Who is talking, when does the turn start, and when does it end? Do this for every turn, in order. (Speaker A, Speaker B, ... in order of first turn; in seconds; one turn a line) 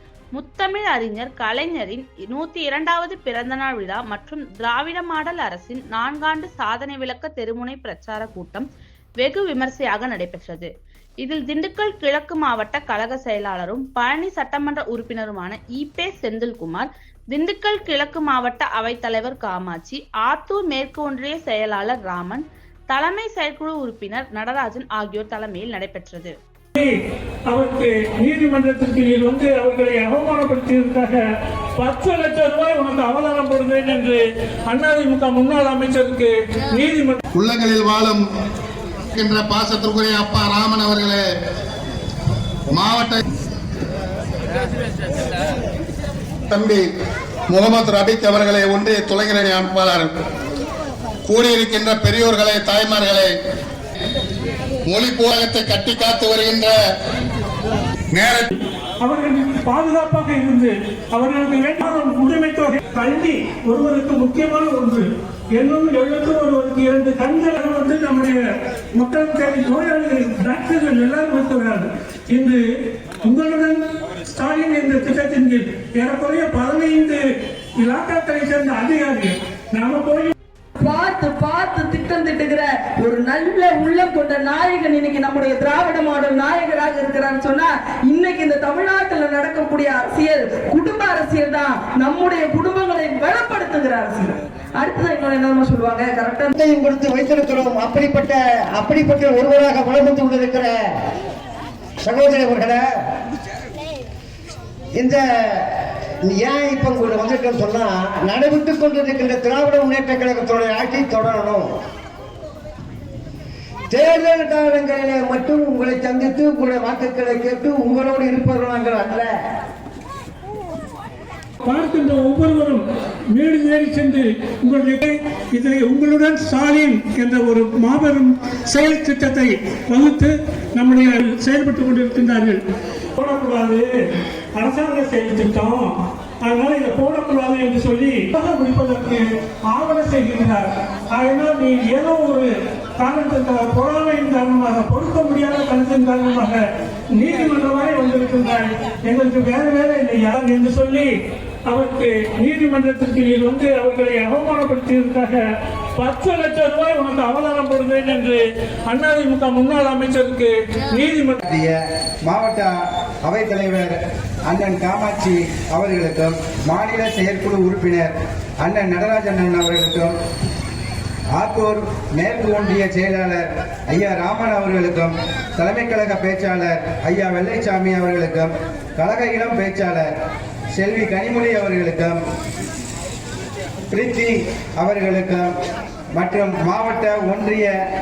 Speaker A: 0.3-8.7
Speaker A: 9.2-10.7
Speaker A: 11.2-26.3
Speaker B: 27.5-31.2
Speaker B: 31.8-37.2
Speaker C: 37.4-38.2
Speaker C: 39.2-41.2
Speaker C: 42.7-43.2
Speaker C: 46.5-46.9
Speaker C: 47.5-50.1
Speaker C: 51.3-53.3
Speaker C: 54.9-56.7
Speaker C: 58.1-58.5
Speaker B: 58.5-68.4
Speaker B: 69.0-72.6
Speaker B: 73.2-77.2
Speaker B: 77.8-80.3
Speaker D: 80.8-96.5
Speaker E: 96.5-100.7
Speaker E: 102.0-102.8
Speaker E: 105.0-105.7
Speaker E: 106.3-111.7
Speaker E: 113.9-119.3
Speaker B: 121.6-132.6
Speaker B: 133.2-133.9
Speaker B: 134.5-146.6
Speaker B: 147.1-151.1
Speaker B: 151.7-155.4
Speaker B: 155.9-161.4
Speaker F: 161.4-162.7
Speaker F: 163.2-170.1
Speaker F: 171.3-180.1
Speaker F: 180.8-182.2
Speaker F: 183.9-185.5
Speaker F: 186.1-187.7